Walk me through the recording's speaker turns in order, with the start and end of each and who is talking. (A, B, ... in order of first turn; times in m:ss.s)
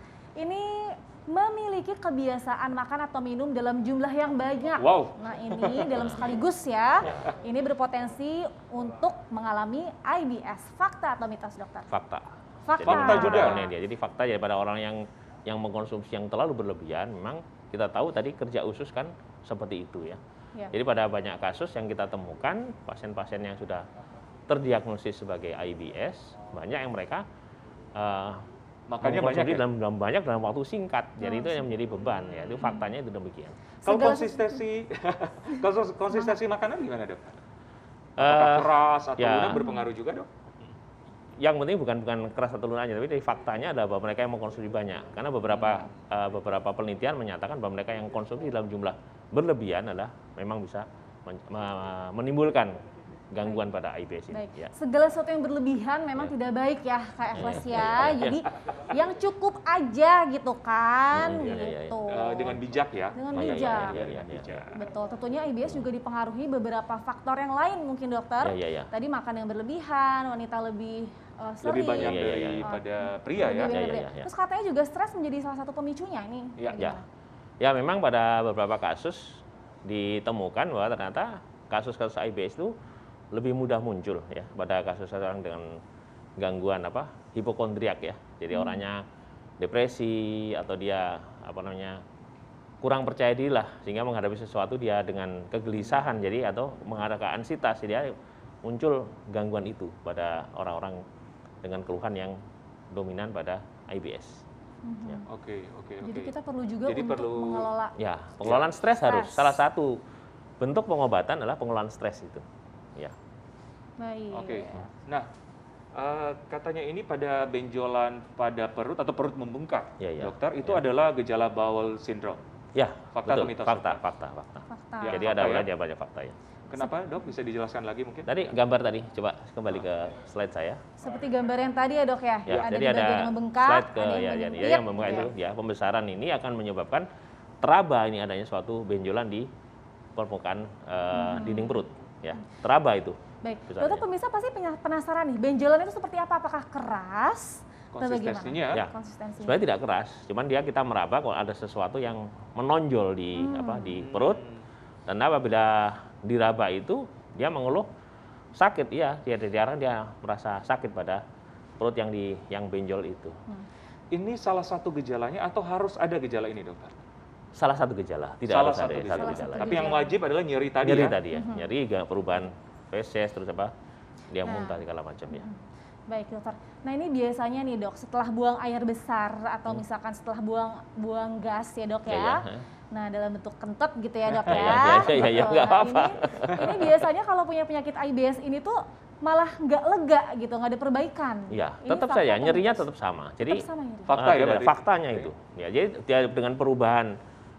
0:00.4-0:11.9 A
0:04.8-0:06.0 B
0:06.0-0:06.2 C
0:07.0-0:07.3 C
0:11.9-0:20.2 C
0:12.6-0:13.7 A
0:12.8-0:13.6 B
0:20.7-0:23.8 C
0:24.5-0:27.2 C
0:27.9-0:28.4 C
0:28.9-0:29.6 B
0:29.0-0:33.6 C
0:31.2-0:31.6 A
0:33.8-0:34.6 A
0:33.8-0:37.3 B
0:38.2-0:40.3 B
0:38.2-0:39.6 C
0:39.5-0:39.9 A
0:41.4-0:52.8 C
0:45.5-0:45.8 B
0:53.3-0:54.7 C
0:54.3-1:02.6 A
0:57.3-0:58.4 C
1:01.1-1:02.0 C
1:02.1-1:04.8 B
1:03.1-1:03.9 A
1:03.3-1:04.6 C
1:04.7-1:17.0 A
1:08.4-1:08.9 C
1:11.6-1:13.8 B
1:12.0-1:12.7 C
1:13.4-1:14.3 C
1:16.7-1:17.0 C
1:17.6-1:22.7 C
1:23.3-1:25.8 C
1:26.4-1:29.0 C
1:28.5-1:28.8 A
1:29.6-1:32.0 C
1:32.8-1:41.0 C
1:41.6-1:42.3 C
1:42.9-1:44.4 C
1:44.8-1:45.2 A
1:45.3-1:46.3 B
1:46.0-1:47.9 A
1:46.8-1:47.7 B
1:48.0-1:50.0 C
1:48.4-1:48.7 B
1:49.0-1:49.6 A
1:50.6-1:52.4 C
1:54.0-1:54.9 A
1:54.3-1:55.3 B
1:55.9-2:02.4 B
2:00.0-2:00.8 C
2:02.7-2:06.3 C
2:03.1-2:04.0 B
2:04.7-2:05.2 A
2:05.0-2:05.7 B
2:06.7-2:08.5 B
2:06.7-2:07.3 A
2:08.2-2:10.8 C
2:11.0-2:15.3 A
2:12.5-2:17.1 C
2:17.6-2:19.5 C
2:20.2-2:23.2 C
2:21.1-2:21.8 A
2:23.4-2:29.6 A
2:23.7-2:24.0 C
2:27.9-2:28.8 B
2:28.7-2:34.4 C
2:33.4-2:34.0 A
2:33.9-2:34.5 B
2:35.1-2:37.9 C
2:38.6-2:41.2 C
2:41.8-2:43.3 C
2:44.1-2:46.9 B
2:47.6-2:49.9 C
2:48.5-2:51.2 B
2:49.1-2:50.1 A
2:50.8-2:53.7 C
2:51.3-2:51.7 A
2:54.3-2:55.4 C
2:54.4-3:12.9 A
3:02.1-3:02.6 C
3:04.4-3:05.0 B
3:04.4-3:07.0 C
3:11.5-3:17.1 C
3:13.4-3:14.2 A
3:14.1-3:15.2 B